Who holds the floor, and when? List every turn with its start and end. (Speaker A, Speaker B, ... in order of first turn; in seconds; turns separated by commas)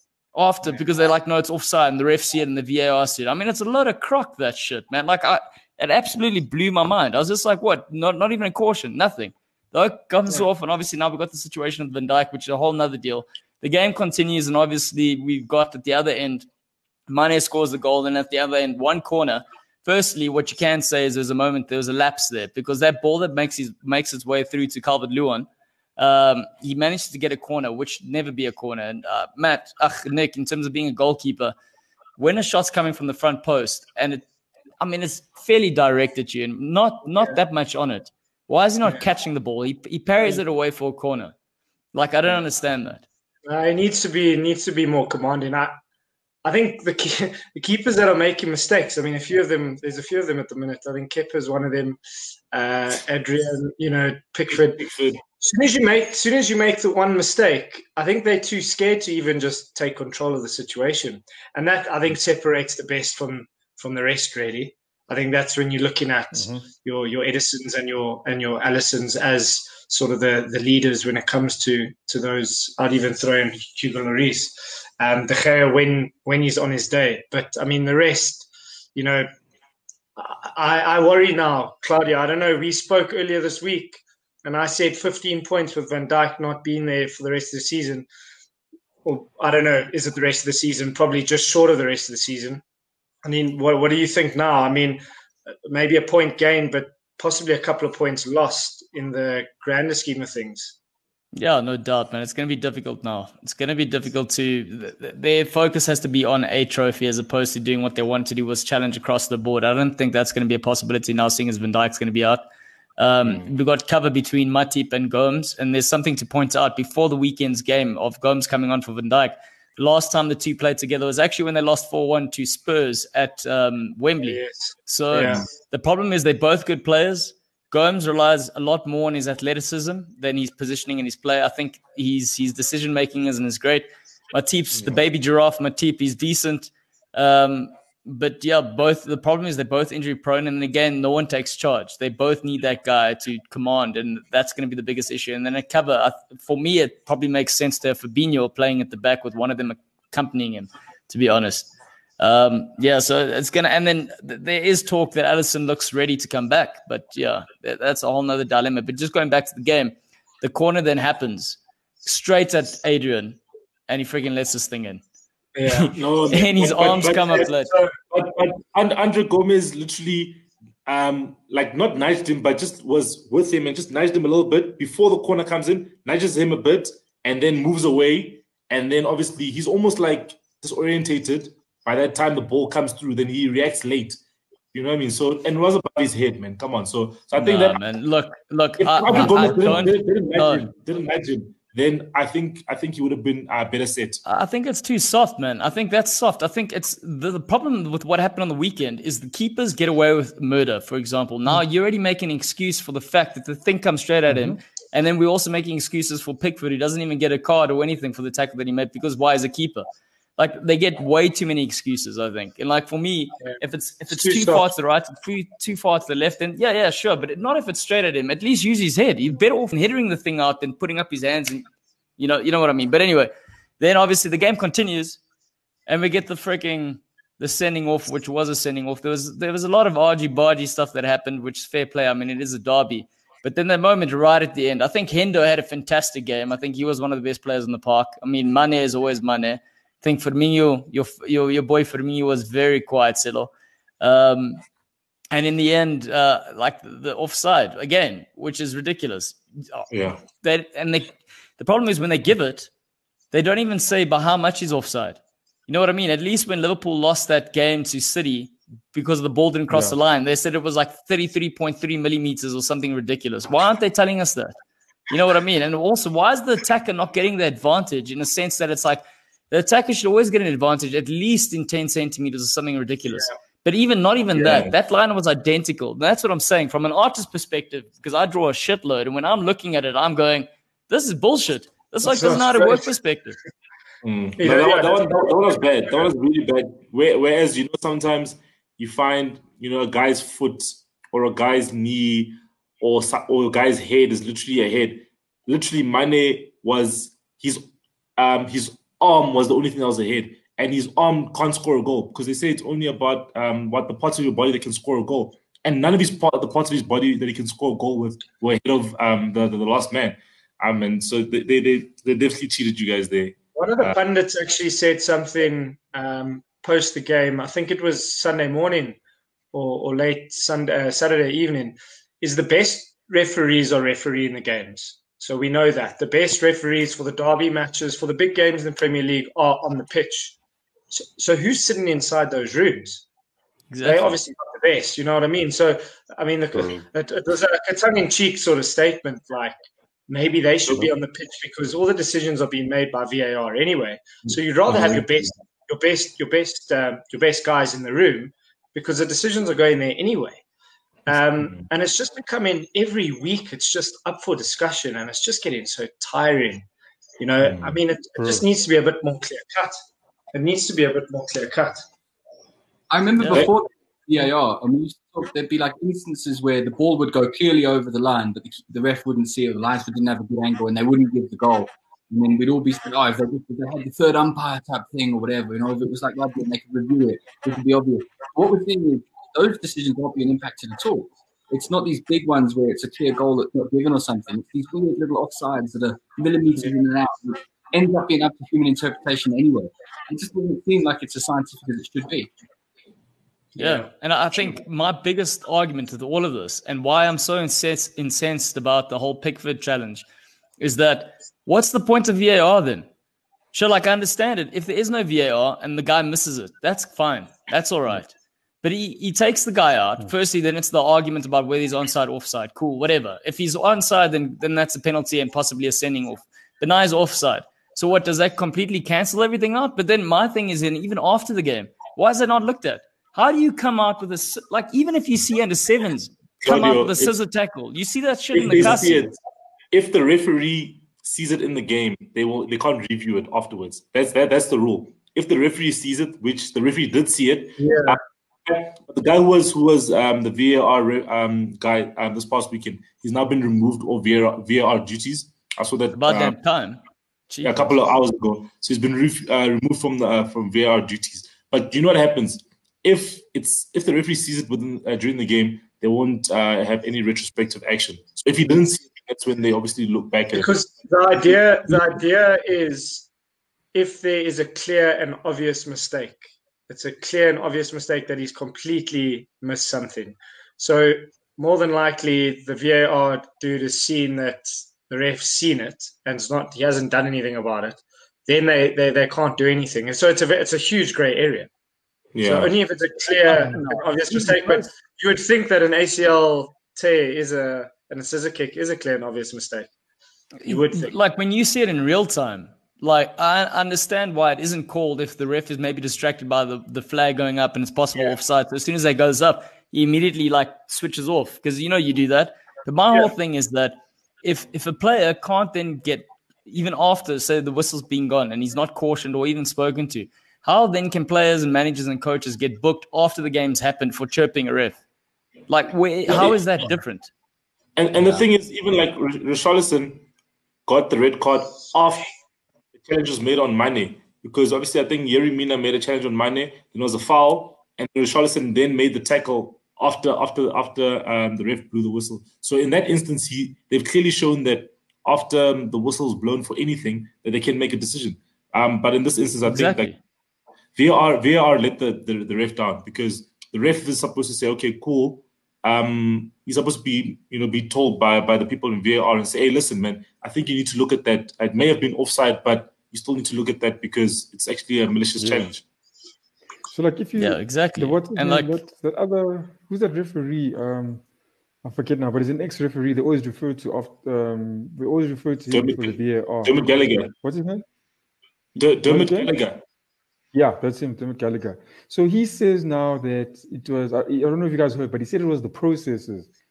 Speaker A: 0.3-16.5, Speaker A: 17.1-31.5, Speaker A: 32.2-34.2, Speaker A: 34.8-41.3, Speaker A: 41.9-43.0, Speaker B: 43.5-45.7, Speaker B: 46.4-52.0, Speaker B: 52.5-54.8, Speaker C: 54.5-55.2, Speaker B: 55.4-79.3, Speaker D: 66.3-66.6, Speaker B: 80.2-88.1, Speaker B: 89.0-92.6, Speaker B: 93.2-95.0, Speaker B: 95.7-100.8, Speaker A: 101.3-112.4, Speaker A: 113.0-165.0, Speaker B: 124.2-125.5, Speaker B: 165.5-165.9, Speaker A: 165.7-167.7, Speaker C: 165.9-167.5, Speaker B: 166.6-167.9, Speaker C: 168.1-184.2, Speaker C: 184.7-187.8, Speaker A: 187.3-190.7, Speaker C: 188.8-194.2, Speaker A: 194.2-209.8, Speaker D: 204.3-204.6, Speaker A: 210.4-221.7, Speaker B: 214.1-214.7, Speaker A: 222.2-225.2, Speaker A: 225.9-244.6, Speaker A: 245.3-252.7, Speaker C: 249.9-250.2, Speaker A: 253.3-264.5, Speaker D: 259.7-260.0, Speaker A: 265.1-283.4, Speaker C: 274.3-274.7, Speaker B: 282.0-282.9, Speaker C: 284.0-297.6, Speaker B: 284.4-286.0, Speaker C: 298.2-314.0, Speaker B: 313.6-319.0, Speaker B: 319.5-330.4, Speaker B: 330.9-333.0, Speaker A: 333.7-334.2, Speaker B: 333.8-339.5, Speaker B: 340.1-350.4, Speaker C: 344.3-345.1, Speaker B: 351.1-356.6, Speaker C: 351.4-351.7, Speaker B: 357.2-359.8, Speaker C: 357.4-357.7, Speaker D: 358.2-358.4, Speaker B: 360.3-361.8, Speaker E: 362.9-392.3, Speaker A: 363.2-363.5, Speaker A: 393.6-400.1, Speaker B: 393.6-393.9, Speaker A: 400.6-402.9, Speaker A: 403.5-408.1, Speaker A: 408.6-429.1, Speaker C: 426.4-427.1, Speaker C: 428.3-429.2, Speaker C: 429.7-446.4, Speaker B: 437.6-438.0, Speaker A: 445.9-447.7, Speaker C: 447.4-460.5, Speaker B: 460.3-463.1, Speaker C: 461.2-462.0, Speaker B: 463.7-481.5, Speaker C: 482.1-482.5, Speaker B: 482.2-489.7, Speaker A: 483.3-484.6, Speaker A: 490.4-514.8, Speaker B: 490.4-490.9, Speaker A: 515.5-517.1, Speaker C: 516.1-516.4, Speaker C: 517.8-520.0, Speaker E: 517.9-518.2, Speaker C: 520.7-522.1, Speaker C: 522.8-539.9, Speaker A: 539.4-540.0, Speaker C: 540.8-555.6, Speaker D: 555.2-555.5, Speaker D: 556.7-561.0, Speaker A: 557.2-558.5, Speaker D: 561.6-567.6, Speaker C: 565.5-567.1, Speaker C: 568.5-569.6, Speaker D: 568.9-569.3, Speaker D: 570.3-576.3